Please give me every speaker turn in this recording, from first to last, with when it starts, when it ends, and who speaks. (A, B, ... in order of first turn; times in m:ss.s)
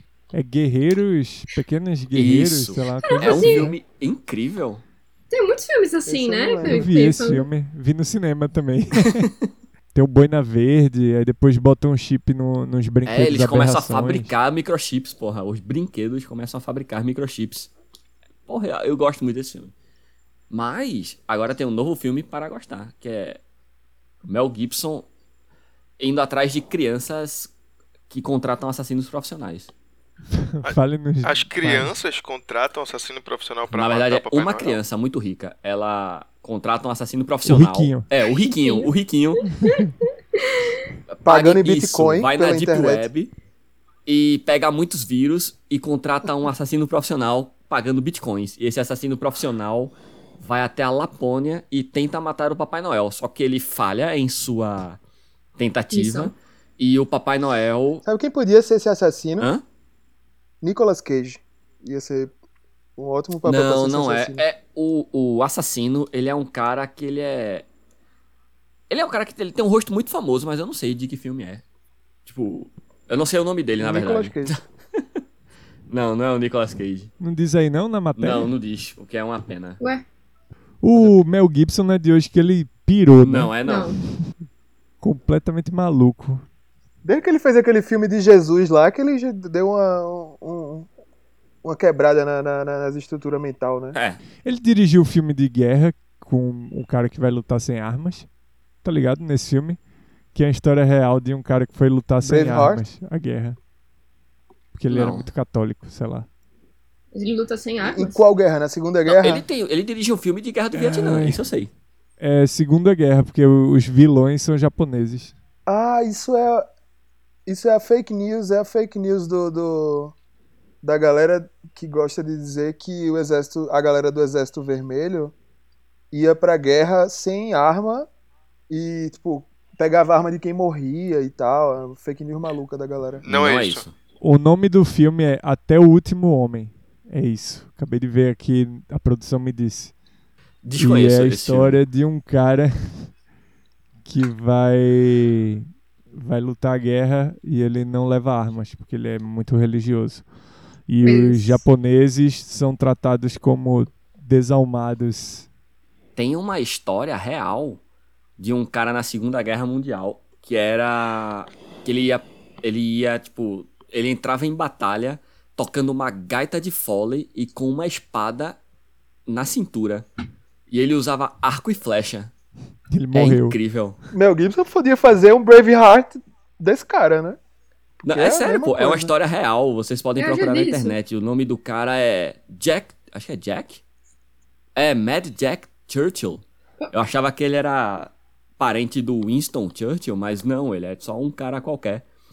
0:00.3-0:03.8 A
0:02.1-0:04.8 B
0:03.0-0:03.7 C
0:05.3-0:07.5 C
0:06.1-0:06.9 D
0:06.6-0:09.3 A
0:09.0-0:09.3 B
0:09.9-0:14.3 A
0:13.1-0:17.7 B
0:18.5-0:19.7 B
0:20.5-0:23.4 B
0:24.2-0:25.1 B
0:26.0-0:27.5 B
0:28.1-0:29.7 B
0:30.3-0:31.9 A
0:30.6-0:34.8 E
0:33.7-0:39.5 B
0:37.4-0:38.1 A
0:38.3-0:40.8 C
0:39.6-0:39.9 A
0:41.1-0:43.3 B
0:41.2-0:43.1 D
0:44.1-0:55.0 B
0:55.6-0:58.0 B
0:55.9-0:56.3 C
0:58.0-0:59.5 D
1:00.6-1:02.3 D
1:03.0-1:04.4 D
1:03.4-1:07.6 B
1:08.9-1:11.6 B
1:12.2-1:15.1 B
1:13.8-1:14.6 D
1:15.9-1:17.1 B
1:17.2-1:18.5 A
1:18.2-1:19.8 B
1:20.8-1:24.3 A
1:23.2-1:23.9 B
1:23.6-1:24.0 C
1:25.0-1:26.4 A
1:27.0-1:30.9 D
1:31.6-1:34.0 D
1:33.9-1:34.2 B
1:34.4-1:38.3 A
1:38.8-1:39.8 A
1:40.3-1:43.6 A
1:42.2-1:42.8 D
1:44.7-1:46.3 A
1:44.9-1:45.3 B
1:47.1-1:48.2 C
1:47.8-1:49.4 D
1:49.1-1:51.7 B
1:50.7-1:51.4 A
1:52.2-1:55.3 A
1:55.7-1:56.6 D
1:57.5-2:00.1 D
2:00.8-2:05.3 D
2:06.1-2:08.1 D
2:08.7-2:13.2 D
2:13.2-2:13.8 E
2:13.3-2:13.9 B
2:14.2-2:19.9 A
2:20.6-2:21.8 B
2:20.8-2:23.1 A
2:24.0-2:30.3 A
2:30.9-2:35.5 A
2:31.0-2:31.6 C
2:36.2-2:37.8 B
2:38.4-2:48.6 B
2:49.3-2:50.1 B
2:50.7-2:52.3 B
2:52.9-2:53.6 A
2:53.1-2:54.0 B
2:54.1-2:57.4 D
2:58.0-3:03.8 B
2:58.1-2:59.1 D
3:00.2-3:01.0 C
3:04.8-3:12.0 B